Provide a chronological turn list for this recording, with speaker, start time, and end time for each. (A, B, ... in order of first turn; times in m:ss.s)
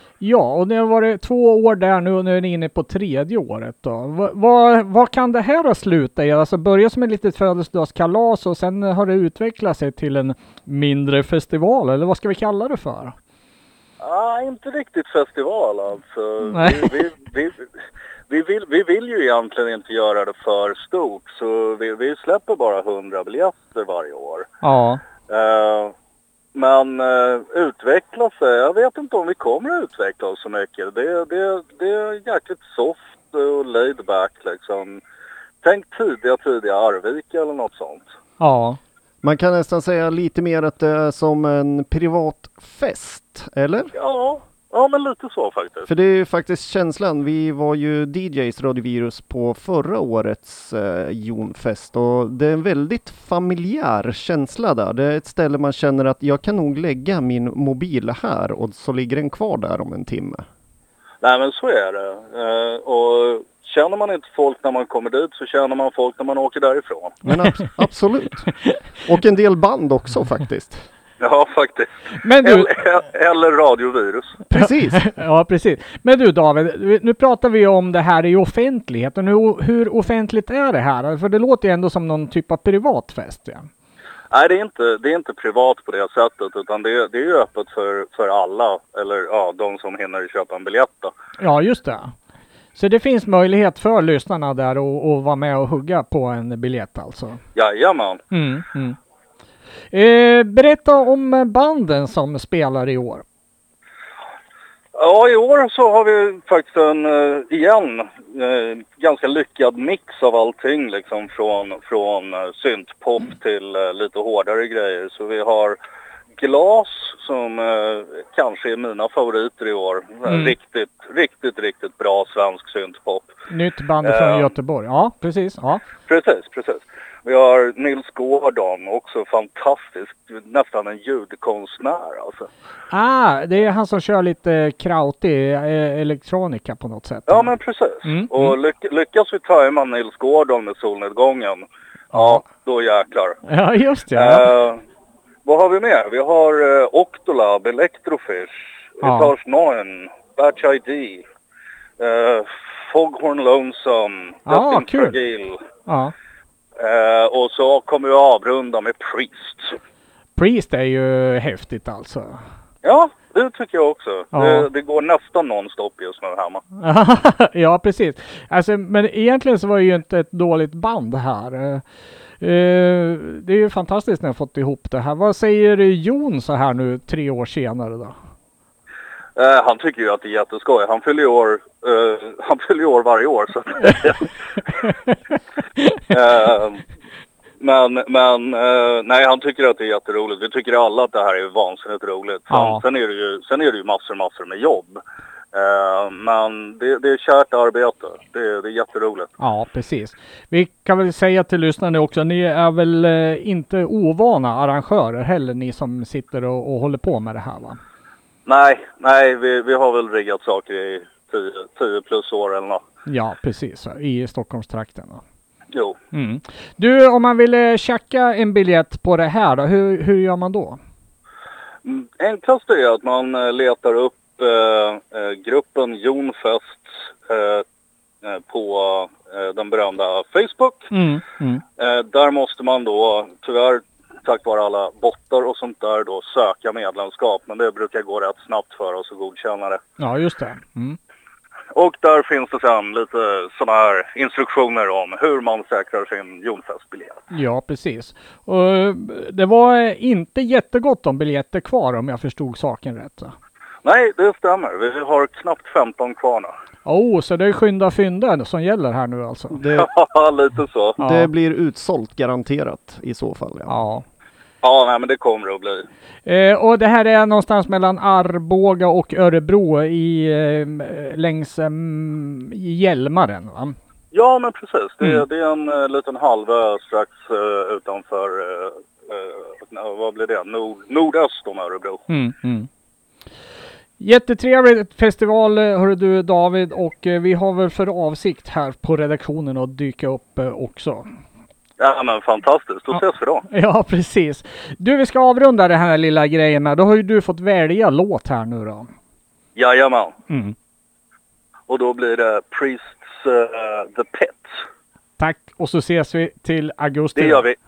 0:00.2-0:13.1 A
0:14.0-0:17.6 B
0:16.5-0:16.9 A
0:18.3-0:24.5 B
0:24.6-0:25.0 A
0:25.3-0:25.9 B
0:26.5-0:35.0 B
0:35.6-0:38.1 B
0:38.4-0:38.8 A
0:39.2-0:43.9 C
0:43.9-0:45.9 B
0:45.9-1:00.4 C
1:01.2-1:07.2 B
1:07.2-1:08.5 C
1:09.0-1:10.8 C
1:11.2-1:11.9 B
1:12.2-1:12.7 A
1:12.4-1:14.4 B
1:14.5-1:15.0 C
1:14.5-1:23.7 A
1:24.3-1:31.1 B
1:31.4-1:32.1 A
1:32.8-1:37.4 A
1:37.6-1:38.2 B
1:38.3-1:39.0 A
1:39.9-1:43.2 A
1:45.0-1:55.8 B
1:56.4-2:03.3 B
2:00.3-2:00.5 A
2:03.5-2:05.8 A
2:04.0-2:04.5 B
2:06.1-2:12.5 B
2:12.9-2:17.5 A
2:17.3-2:23.4 B
2:18.0-2:18.6 A
2:22.1-2:22.4 A
2:23.4-2:24.5 A
2:24.1-2:24.8 B
2:25.4-2:31.2 B
2:29.0-2:29.3 A
2:32.0-2:35.6 B
2:34.5-2:35.2 A
2:35.9-2:36.1 A
2:36.8-2:39.8 B
2:40.4-2:42.4 A
2:42.8-2:46.6 B
2:44.3-2:44.7 A
2:46.8-2:51.8 A
2:52.4-2:58.1 A
2:59.4-3:04.3 B
3:06.1-3:06.8 B
3:07.6-3:15.0 B
3:12.5-3:12.8 A
3:15.5-3:19.3 B
3:19.4-3:27.8 A
3:28.4-3:32.8 B
3:33.1-3:35.2 A
3:35.7-3:36.0 B
3:36.1-3:40.8 A
3:41.8-3:47.6 B
3:48.2-3:50.9 B
3:50.9-3:51.6 A
3:51.8-3:59.8 B
4:00.0-4:01.0 A
4:01.7-4:07.2 B
4:07.3-4:13.3 A
4:13.8-4:16.5 B
4:16.8-4:19.6 A
4:19.5-4:19.9 C
4:19.7-4:21.0 B
4:21.0-4:21.3 A
4:21.0-4:23.7 C
4:23.7-4:24.0 A
4:24.6-4:25.8 B
4:26.2-4:33.8 A
4:34.1-4:42.0 B
4:42.1-4:42.7 A
4:44.0-4:51.1 A
4:51.8-4:53.4 B
4:53.5-4:58.9 A
4:59.6-5:00.1 B
5:00.3-5:00.6 A
5:01.7-5:04.5 B
5:05.2-5:07.4 A
5:07.1-5:07.6 B